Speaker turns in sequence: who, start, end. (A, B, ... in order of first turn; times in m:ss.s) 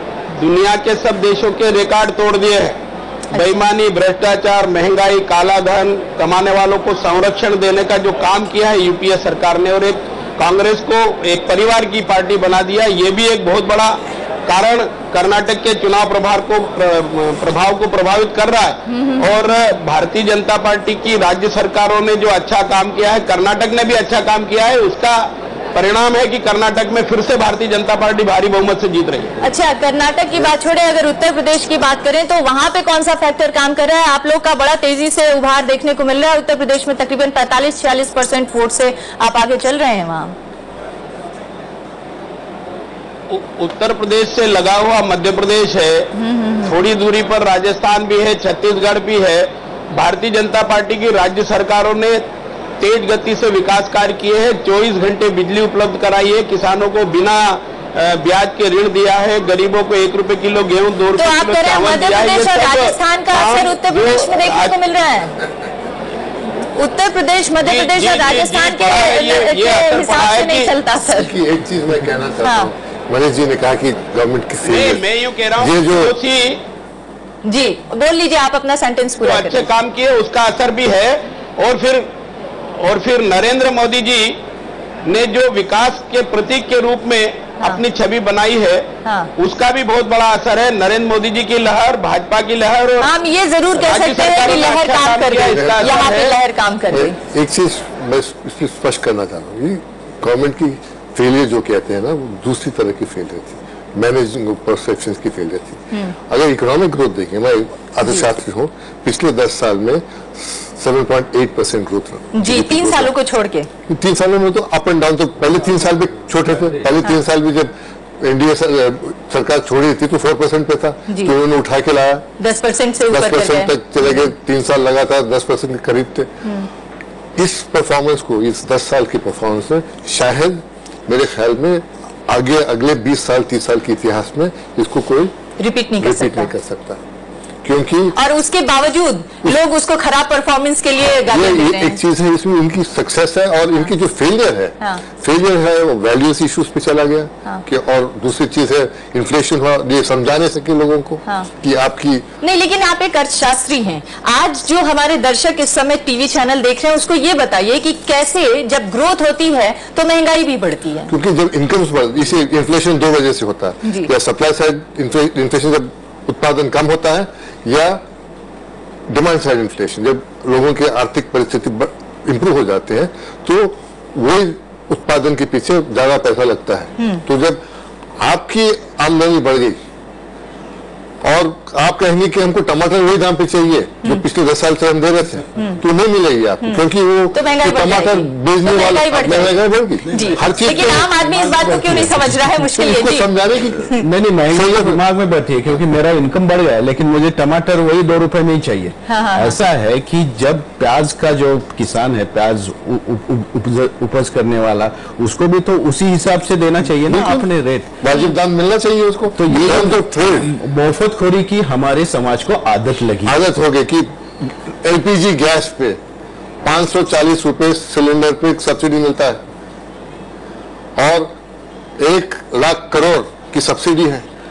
0:00.4-0:02.8 A
0:03.3-0:03.6 B
0:03.3-0:29.4 A
0:18.9-0:19.2 B
0:29.4-0:40.3 B
0:43.3-0:46.1 A
0:46.2-0:46.7 B
0:46.6-0:52.2 A
0:52.8-1:04.7 A
1:01.2-1:05.4 B
1:06.8-1:11.3 B
1:07.6-1:10.7 A
1:11.0-1:15.0 C
1:12.4-1:12.7 B
1:14.6-1:16.6 A
1:15.6-1:16.2 C
1:17.4-1:19.7 B
1:19.2-1:22.1 A
1:22.8-1:24.4 A
1:25.1-1:33.1 A
1:33.0-1:37.2 B
1:33.7-1:36.4 A
1:35.5-1:35.9 C
1:36.9-1:53.1 C
1:52.3-1:53.7 B
1:53.9-2:02.3 C
2:02.4-2:03.7 B
2:03.1-2:06.3 C
2:06.4-2:06.7 B
2:07.4-2:15.3 C
2:15.6-2:16.5 B
2:16.0-2:17.0 C
2:17.6-2:18.1 C
2:18.2-2:22.0 B
2:21.0-2:32.2 C
2:32.4-2:41.1 B
2:41.1-2:48.0 C
2:43.8-2:44.1 B
2:49.1-2:57.6 C
2:58.2-2:59.8 C
3:01.2-3:12.1 C
3:06.6-3:13.3 B
3:10.2-3:10.6 D
3:11.6-3:12.2 D
3:12.6-3:13.8 C
3:13.8-3:27.9 D
3:14.5-3:15.0 C
3:19.1-3:19.6 B
3:27.0-3:27.5 C
3:28.0-3:30.5 C
3:29.4-3:33.4 D
3:33.2-3:36.0 C
3:36.6-3:39.4 C
3:41.0-3:41.4 C
3:42.0-3:44.2 C